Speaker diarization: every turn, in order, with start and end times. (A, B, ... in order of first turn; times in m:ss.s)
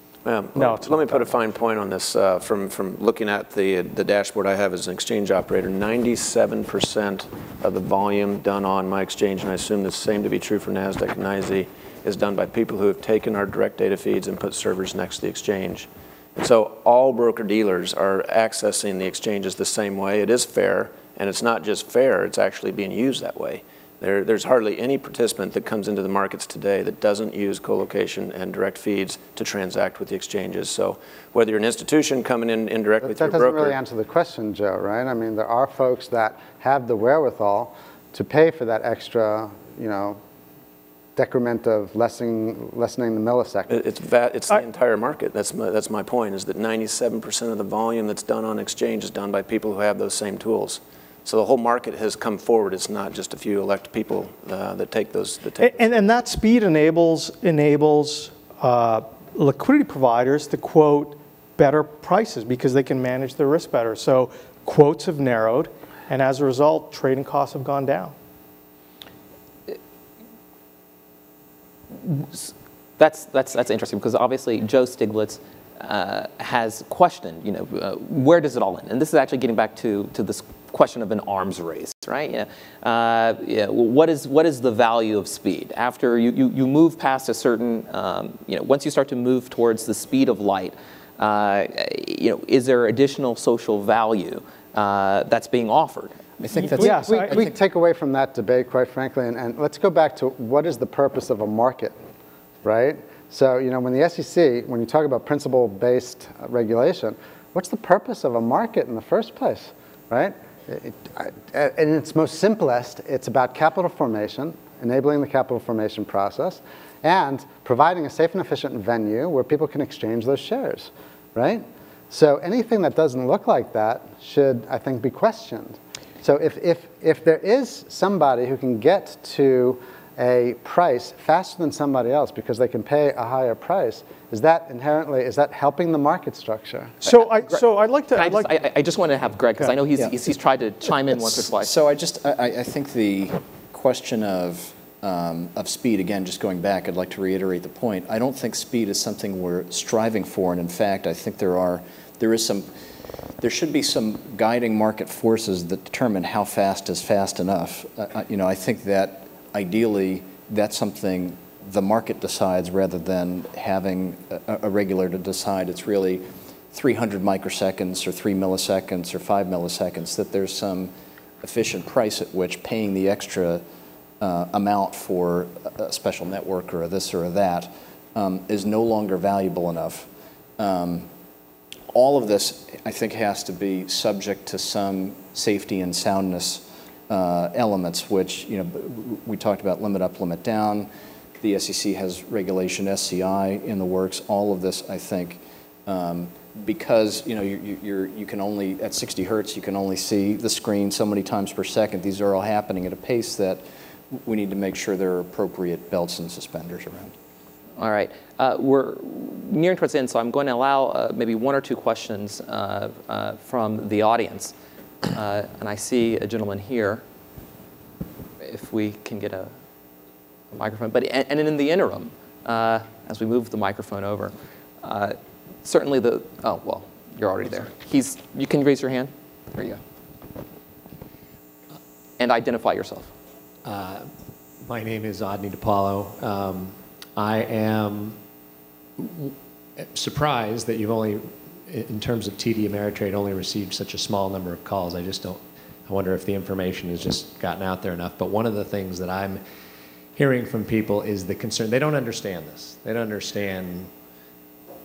0:00.2-0:33.8 A
0:00.6-0:01.3 B
0:33.0-0:40.2 C
0:41.2-0:43.7 C
0:43.7-0:56.0 A
0:55.6-1:08.2 B
1:12.0-1:36.2 D
1:36.4-1:37.5 E
1:36.8-1:37.4 B
1:36.8-1:42.0 C
1:42.6-2:17.0 C
2:17.0-2:18.6 B
2:17.1-2:17.6 D
2:18.1-2:21.7 D
2:21.2-2:32.7 E
2:33.4-2:53.6 E
2:54.2-3:01.1 E
3:01.9-3:27.1 E
3:27.8-3:34.5 D
3:35.1-3:37.0 D
3:38.4-3:39.5 D
3:40.5-3:49.8 D
3:52.2-3:53.1 D
3:53.6-3:54.1 F
3:54.7-3:58.2 F
3:59.0-4:09.4 F
4:10.2-4:13.9 F